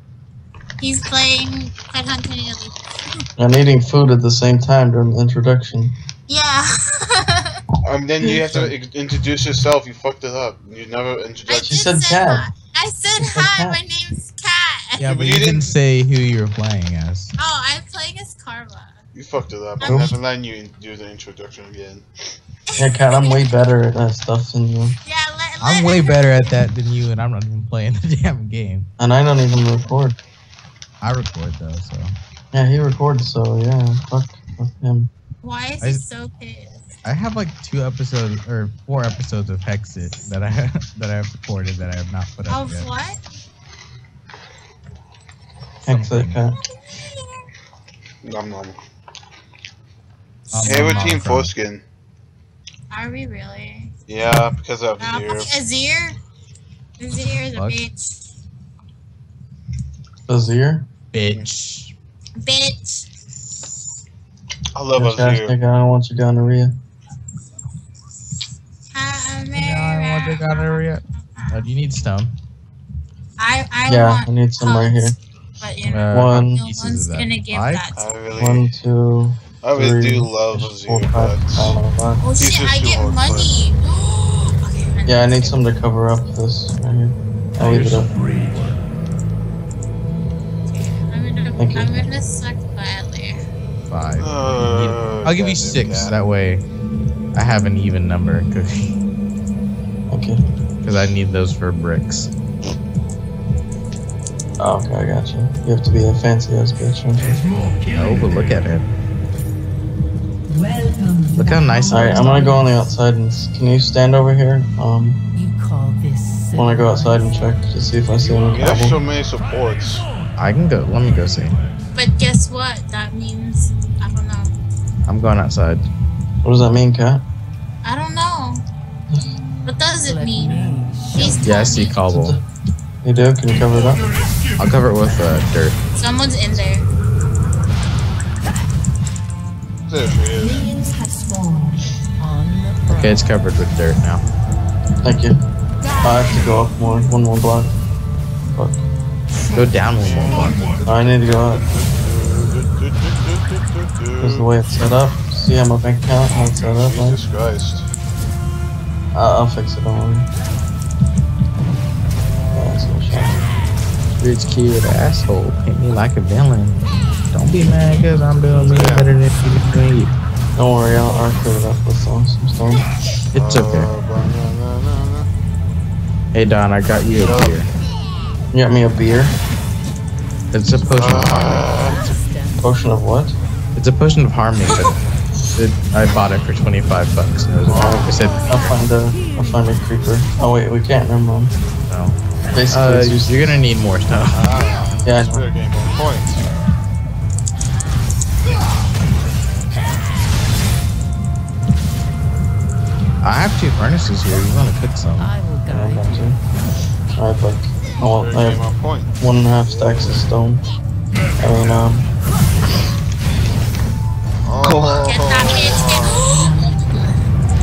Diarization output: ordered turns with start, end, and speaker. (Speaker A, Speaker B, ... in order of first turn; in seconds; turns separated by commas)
Speaker A: 0.8-3.2, Speaker B: 3.4-5.9, Speaker A: 6.3-7.6, Speaker C: 7.8-11.9, Speaker B: 8.2-8.7, Speaker A: 11.5-15.2, Speaker B: 11.6-12.5, Speaker B: 13.2-13.8, Speaker D: 15.0-17.3, Speaker C: 15.0-15.7, Speaker A: 17.4-19.0, Speaker C: 19.1-22.1, Speaker A: 19.8-20.2, Speaker D: 19.8-20.1, Speaker A: 22.7-23.5, Speaker B: 22.8-25.0, Speaker A: 25.0-26.4, Speaker D: 25.6-28.9, Speaker B: 29.0-30.2, Speaker D: 31.0-32.1, Speaker B: 32.5-35.1, Speaker A: 35.4-36.8, Speaker D: 37.0-42.9, Speaker A: 42.5-43.2, Speaker D: 45.8-46.4, Speaker B: 45.9-46.6, Speaker C: 48.2-48.8, Speaker D: 50.5-51.5, Speaker C: 50.6-51.8, Speaker A: 52.9-53.9, Speaker C: 54.1-55.5, Speaker A: 55.0-56.2, Speaker A: 57.0-58.2, Speaker D: 57.5-57.8, Speaker B: 60.3-60.9, Speaker D: 61.1-61.9, Speaker A: 62.4-63.0, Speaker C: 64.7-65.5, Speaker B: 64.9-66.8, Speaker A: 68.9-71.6, Speaker D: 69.5-72.3, Speaker A: 73.4-78.0, Speaker B: 73.8-75.1, Speaker D: 75.8-77.9, Speaker B: 76.1-76.6, Speaker C: 77.9-78.7, Speaker B: 78.3-82.2, Speaker C: 79.6-81.8, Speaker A: 82.2-85.6, Speaker C: 82.3-83.6, Speaker B: 85.0-88.1, Speaker D: 87.6-88.8, Speaker A: 90.7-93.4, Speaker B: 91.6-92.1, Speaker D: 93.9-96.6, Speaker C: 94.2-96.2, Speaker D: 97.3-98.9, Speaker B: 100.1-100.4, Speaker D: 100.8-102.3, Speaker B: 104.6-107.3, Speaker D: 107.9-108.8, Speaker D: 111.3-112.5, Speaker B: 111.9-115.2, Speaker E: 115.3-117.3, Speaker B: 116.5-119.0, Speaker C: 118.5-120.0, Speaker D: 120.4-121.6, Speaker A: 122.0-124.5, Speaker D: 125.1-125.9, Speaker B: 126.4-127.2, Speaker A: 127.8-128.6, Speaker A: 129.6-132.0, Speaker E: 130.0-131.6, Speaker D: 131.4-132.4, Speaker B: 132.1-132.4, Speaker B: 133.0-134.0, Speaker D: 134.6-135.8, Speaker A: 135.9-136.9, Speaker C: 139.9-140.7, Speaker E: 142.2-143.4, Speaker D: 142.9-144.2, Speaker B: 145.0-145.4, Speaker B: 146.0-147.7, Speaker D: 149.5-150.7, Speaker C: 150.0-154.5, Speaker B: 150.8-151.6, Speaker B: 154.2-157.2, Speaker C: 156.5-157.9, Speaker B: 159.1-160.3, Speaker B: 162.5-163.4, Speaker D: 164.2-170.2, Speaker C: 168.6-169.2, Speaker B: 170.6-172.8, Speaker D: 173.3-173.9, Speaker C: 173.3-175.3, Speaker D: 176.3-177.7, Speaker C: 177.1-177.6, Speaker B: 178.5-179.4, Speaker D: 180.5-181.7, Speaker E: 180.8-182.9, Speaker C: 180.9-182.0, Speaker B: 182.6-183.3, Speaker D: 183.7-188.6, Speaker C: 187.7-188.5, Speaker B: 187.7-191.5, Speaker D: 191.9-192.2, Speaker B: 192.5-193.5, Speaker D: 192.7-194.5, Speaker C: 194.3-196.5, Speaker B: 195.0-195.4, Speaker D: 203.2-205.3, Speaker E: 205.2-206.4, Speaker B: 205.7-206.4, Speaker B: 207.1-208.6, Speaker C: 208.0-210.4, Speaker B: 209.2-210.6, Speaker B: 211.4-212.1, Speaker C: 214.4-216.3, Speaker B: 214.6-215.4, Speaker A: 214.9-217.3